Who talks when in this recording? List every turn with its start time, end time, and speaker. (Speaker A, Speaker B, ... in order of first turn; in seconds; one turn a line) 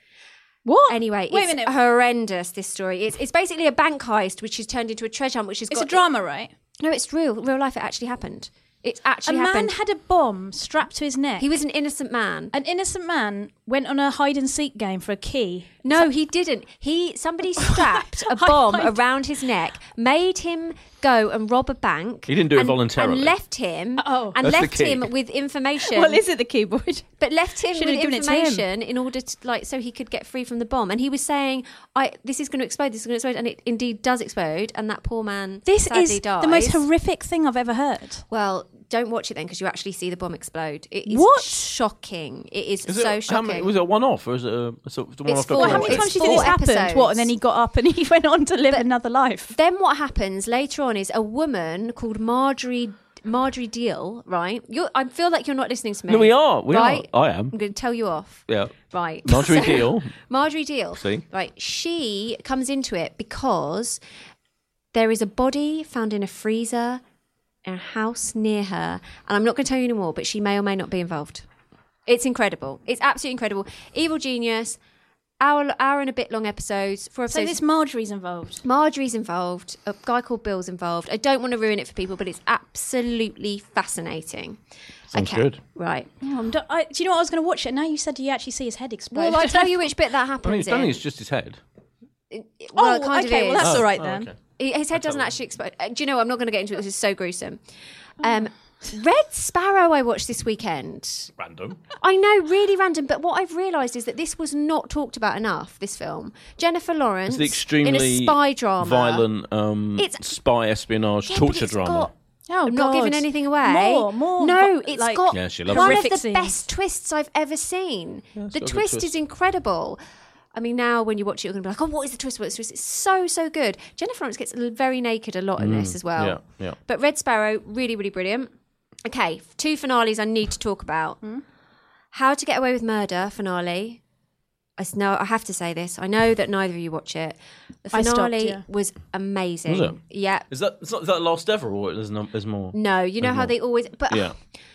Speaker A: 0.6-1.7
Speaker B: 0.9-6.0
Speaker A: 5.7-6.5
Speaker B: 6.8-9.7
Speaker A: 9.2-11.6
Speaker B: 11.4-12.5
Speaker A: 12.5-16.1
Speaker B: 15.8-26.2
Speaker A: 17.6-19.0
Speaker C: 22.3-23.3
Speaker A: 24.0-24.4
Speaker C: 24.4-25.1
Speaker A: 25.8-27.1
Speaker B: 27.2-36.8
Speaker A: 27.7-28.6
Speaker A: 35.6-38.2
Speaker B: 38.3-43.7
Speaker A: 41.1-41.7
Speaker C: 42.9-46.5
Speaker B: 45.2-47.3
Speaker A: 45.5-49.5
Speaker B: 49.5-64.0
Speaker C: 56.1-57.5
Speaker C: 58.5-60.1
Speaker C: 61.0-61.2
Speaker B: 64.9-67.0
Speaker B: 67.6-71.5
Speaker B: 72.0-74.8
Speaker B: 75.4-77.6
Speaker A: 77.3-78.6
Speaker B: 78.6-84.6
Speaker B: 85.1-86.1
Speaker C: 85.1-85.6
Speaker A: 86.2-90.0
Speaker B: 89.1-91.0
Speaker C: 90.4-91.6
Speaker B: 92.3-93.8
Speaker A: 92.7-94.3
Speaker C: 93.6-94.4
Speaker B: 94.6-97.6
Speaker C: 94.9-95.3
Speaker B: 98.2-101.3
Speaker C: 101.4-101.8
Speaker B: 102.0-109.2
Speaker C: 107.3-112.1
Speaker B: 110.0-110.3
Speaker B: 111.3-112.1
Speaker A: 112.5-116.7
Speaker B: 112.7-120.0
Speaker C: 115.3-116.1
Speaker C: 118.3-119.2
Speaker B: 120.5-128.5
Speaker C: 125.6-126.8
Speaker B: 129.0-131.2
Speaker B: 132.1-134.0
Speaker B: 134.8-140.5
Speaker A: 137.9-138.6
Speaker C: 139.7-139.9
Speaker C: 140.5-143.5
Speaker B: 142.7-144.3
Speaker C: 144.1-144.3